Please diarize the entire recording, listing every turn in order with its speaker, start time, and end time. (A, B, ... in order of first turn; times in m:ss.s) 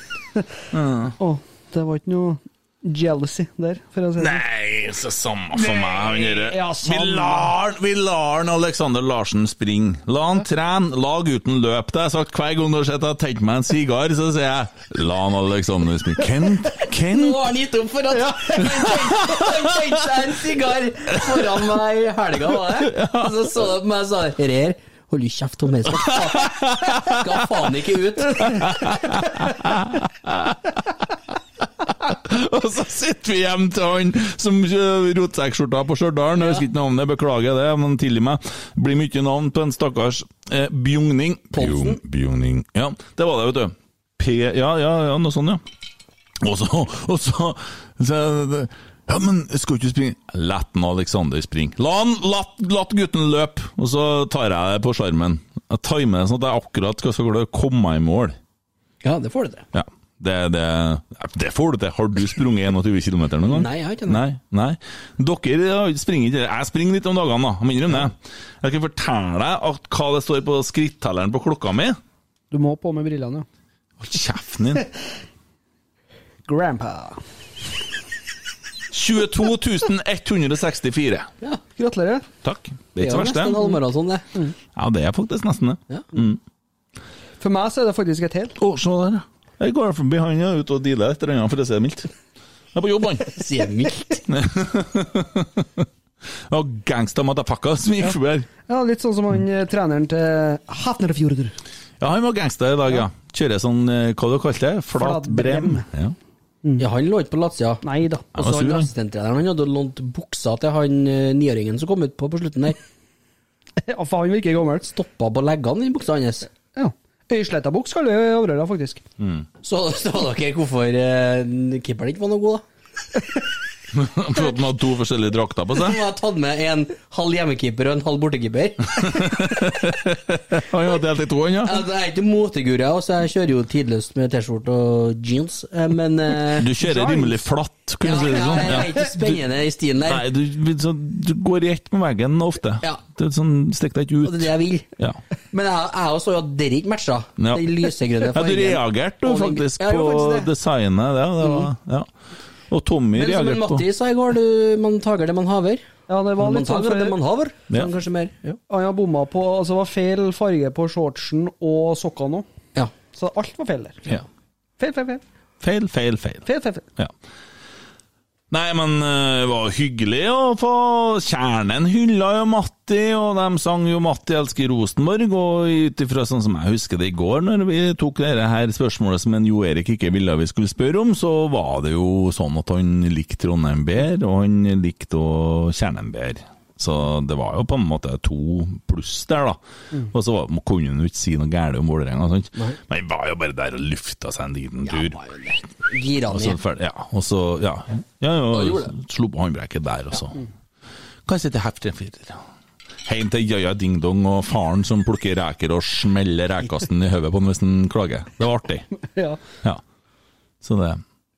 0:00.7-0:01.1 A
0:01.2-0:04.4 B
0:04.2-0:17.4 A
0:05.6-0:07.5 B
0:16.8-0:29.0 C
0:18.6-0:19.9 A
0:21.1-0:21.5 A
0:22.7-0:23.5 A
0:25.9-0:27.7 A
0:28.3-0:31.1 A
0:31.8-0:45.6 A
0:41.6-0:42.0 C
0:46.4-0:58.4 A
0:59.0-0:59.6 C
0:59.7-1:12.0 A
1:03.4-1:04.2 C
1:12.5-1:13.4 B
1:14.0-1:14.8 A
1:16.4-1:17.2 B
1:18.9-1:21.3 A
1:21.8-1:22.2 B
1:22.4-1:23.6 A
1:23.0-1:24.2 C
1:24.7-1:26.4 A
1:27.4-1:28.6 B
1:28.6-1:32.1 A
1:32.7-1:33.4 A
1:33.3-1:34.2 C
1:34.3-1:35.9 A
1:36.5-1:38.5 A
1:38.7-1:41.6 B
1:42.0-1:46.2 A
1:44.9-1:45.8 B
1:46.8-1:47.8 C
1:47.8-1:48.2 B
1:48.3-1:48.9 A
1:48.3-1:52.8 C
1:53.9-1:54.9 B
1:54.9-1:56.5 C
1:56.8-1:59.0 B
1:59.2-1:59.5 A
1:59.6-2:02.6 C
2:03.9-2:06.0 A
2:05.7-2:09.7 C
2:09.0-2:11.8 A
2:11.6-2:16.7 C
2:16.5-2:19.4 A
2:16.8-2:17.5 B
2:18.0-2:20.3 C
2:20.0-2:25.2 A
2:24.2-2:24.9 C
2:25.5-2:30.5 C
2:27.4-2:27.7 A
2:28.3-2:32.1 A
2:31.4-2:31.7 C
2:32.7-2:33.8 A
2:33.1-2:35.9 C
2:36.1-2:37.2 B
2:36.4-2:38.6 C
2:38.7-2:42.4 B
2:43.1-2:44.0 B
2:44.8-2:45.2 B
2:45.6-2:46.4 A
2:46.4-2:46.8 B
2:48.5-3:15.2 A
3:14.8-3:16.6 C
3:16.3-3:20.4 A
3:18.5-3:18.9 C
3:21.2-3:22.4 A
3:23.0-3:28.9 A
3:30.6-3:31.0 A